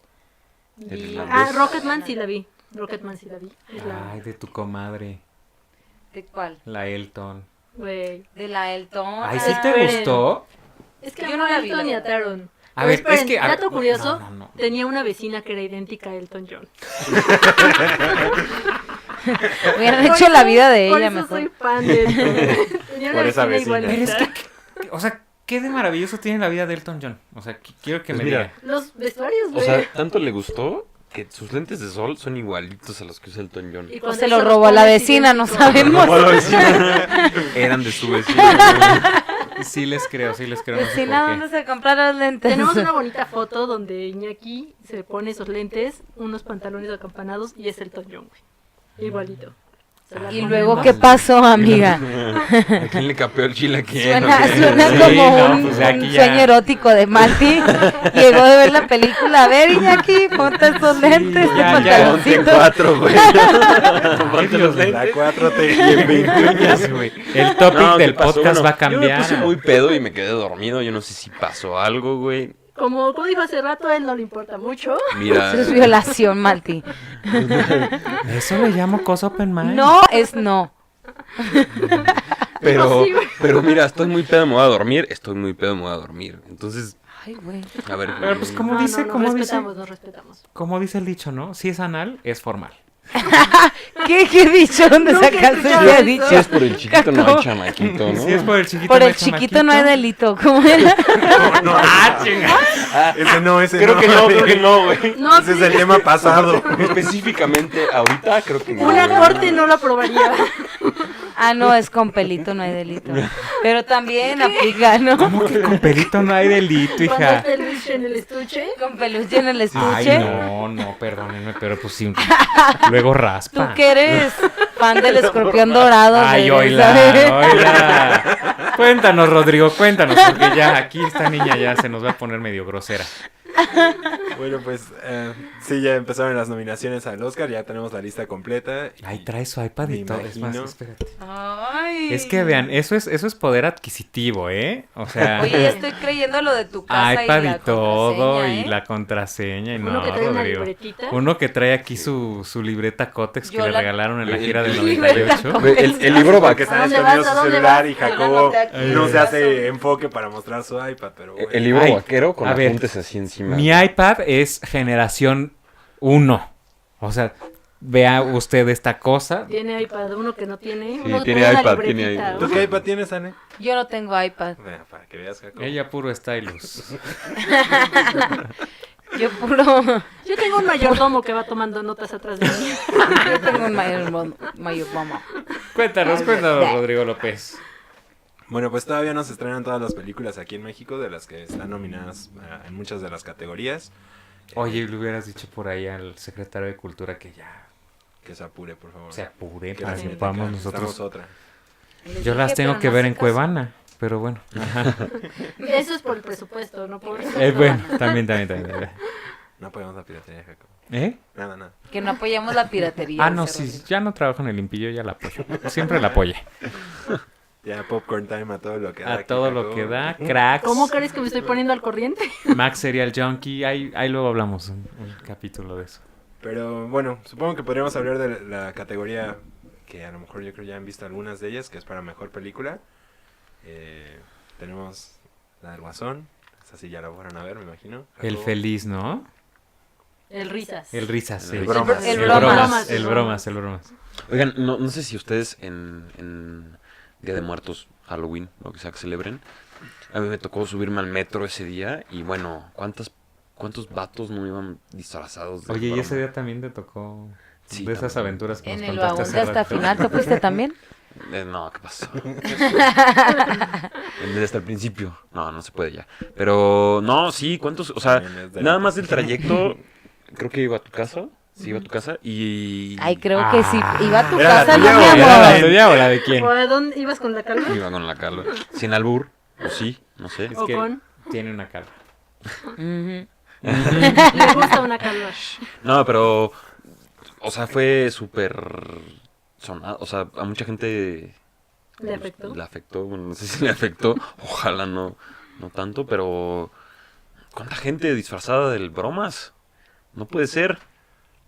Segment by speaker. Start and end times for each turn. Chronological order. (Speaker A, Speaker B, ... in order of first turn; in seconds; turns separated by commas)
Speaker A: 0.8-4.2, Speaker B: 0.9-1.9, Speaker C: 1.1-2.2, Speaker D: 3.8-5.2, Speaker C: 6.1-6.6, Speaker D: 6.6-7.5, Speaker A: 7.7-8.3, Speaker C: 8.3-10.2, Speaker D: 9.2-10.5, Speaker A: 9.3-10.3, Speaker A: 11.0-18.4, Speaker C: 11.2-12.1, Speaker D: 12.8-14.6, Speaker E: 17.1-18.1, Speaker C: 19.6-21.5, Speaker A: 19.6-24.3, Speaker C: 22.0-22.5, Speaker E: 23.1-24.2, Speaker D: 23.9-28.5, Speaker B: 28.1-28.5, Speaker A: 28.6-29.9, Speaker B: 29.5-33.9, Speaker A: 33.9-36.8, Speaker C: 34.0-37.5, Speaker B: 35.7-39.1, Speaker C: 38.3-39.5, Speaker D: 39.5-41.4, Speaker C: 40.7-42.9, Speaker A: 42.4-48.4, Speaker A: 49.0-51.1, Speaker D: 49.0-49.3, Speaker D: 50.1-51.8, Speaker C: 50.3-53.0, Speaker B: 51.6-56.0, Speaker C: 54.0-64.0, Speaker D: 54.3-56.5, Speaker B: 57.3-58.5, Speaker D: 60.9-62.5, Speaker B: 61.4-65.2, Speaker D: 63.9-65.1, Speaker E: 64.8-67.2, Speaker B: 65.7-72.6, Speaker C: 65.7-66.6, Speaker D: 66.0-69.6, Speaker A: 72.8-75.5, Speaker B: 75.1-76.0, Speaker C: 75.3-78.1, Speaker B: 77.2-78.2, Speaker D: 78.2-80.0, Speaker C: 79.6-80.7, Speaker C: 81.4-82.2, Speaker D: 81.8-82.1, Speaker B: 82.6-87.0, Speaker A: 82.6-83.8, Speaker C: 87.2-87.8, Speaker B: 87.8-88.8, Speaker D: 88.2-89.7, Speaker A: 88.6-90.4, Speaker D: 90.5-92.8, Speaker C: 93.2-97.5, Speaker A: 94.9-96.5, Speaker B: 95.7-98.5, Speaker D: 98.1-99.9, Speaker C: 98.8-101.8, Speaker E: 101.2-107.0, Speaker D: 101.6-102.9, Speaker B: 102.7-109.6, Speaker A: 105.1-106.1, Speaker A: 108.8-111.1, Speaker C: 111.3-115.4, Speaker B: 113.1-113.3, Speaker A: 114.3-114.6, Speaker D: 115.2-117.5, Speaker B: 115.3-115.8, Speaker A: 116.9-118.8, Speaker C: 118.8-120.3, Speaker E: 119.7-120.4, Speaker D: 119.7-123.8, Speaker C: 122.3-122.9, Speaker C: 123.5-128.0, Speaker D: 126.1-133.1, Speaker E: 127.6-128.7, Speaker C: 133.6-134.1, Speaker E: 134.3-139.3, Speaker D: 139.0-141.2, Speaker E: 139.8-140.7, Speaker C: 141.2-142.7, Speaker D: 142.1-145.8, Speaker C: 145.3-148.7, Speaker D: 146.9-155.7, Speaker A: 149.8-151.2, Speaker C: 153.4-156.3, Speaker B: 154.2-156.7, Speaker A: 156.1-158.4, Speaker E: 156.1-161.8, Speaker C: 158.0-159.7, Speaker D: 158.7-159.3, Speaker B: 161.3-163.8, Speaker D: 161.7-162.9, Speaker D: 163.4-169.5, Speaker A: 169.5-172.6, Speaker B: 171.0-172.8, Speaker E: 172.3-173.3, Speaker C: 173.6-174.6, Speaker E: 174.6-175.8, Speaker D: 175.6-177.0, Speaker C: 177.4-178.3, Speaker C: 179.1-180.1, Speaker A: 180.2-183.5, Speaker C: 182.9-185.3, Speaker D: 185.7-187.6, Speaker C: 186.0-186.8, Speaker E: 188.5-193.9, Speaker E: 194.5-194.8, Speaker D: 194.5-197.7, Speaker E: 198.2-201.3, Speaker D: 199.1-201.0, Speaker A: 199.9-200.2, Speaker C: 202.0-203.4, Speaker D: 202.2-205.1, Speaker A: 205.6-208.2, Speaker C: 207.3-207.9, Speaker D: 207.3-209.0, Speaker E: 209.6-211.7, Speaker D: 210.9-211.2, Speaker C: 211.9-213.8, Speaker D: 213.2-216.4, Speaker E: 215.5-216.2, Speaker E: 217.6-220.3, Speaker D: 219.0-220.9, Speaker A: 220.6-222.5, Speaker D: 222.5-226.0, Speaker E: 226.4-232.8, Speaker E: 233.6-238.5, Speaker D: 238.2-239.3, Speaker A: 240.3-241.1, Speaker D: 240.9-243.9, Speaker B: 241.4-242.7, Speaker E: 241.6-242.6, Speaker A: 241.7-243.4, Speaker C: 241.8-243.1, Speaker B: 244.3-249.4, Speaker B: 250.1-256.2, Speaker D: 255.7-260.2, Speaker B: 257.7-258.4, Speaker C: 258.6-260.8, Speaker B: 259.0-260.1, Speaker B: 261.1-262.9, Speaker C: 262.6-263.9, Speaker B: 264.1-269.8, Speaker E: 268.0-269.2, Speaker B: 270.3-273.2, Speaker C: 273.0-275.7, Speaker D: 273.3-276.5, Speaker E: 274.3-275.9, Speaker A: 276.2-277.8, Speaker B: 277.6-280.5, Speaker D: 280.5-281.9, Speaker A: 280.5-281.0, Speaker C: 282.8-283.3, Speaker B: 283.6-284.5, Speaker D: 283.7-284.2, Speaker C: 284.0-284.6, Speaker A: 284.2-285.4, Speaker B: 285.7-286.7, Speaker B: 287.4-291.4, Speaker A: 292.0-292.6, Speaker B: 292.0-296.7, Speaker B: 297.5-299.5, Speaker B: 300.1-300.8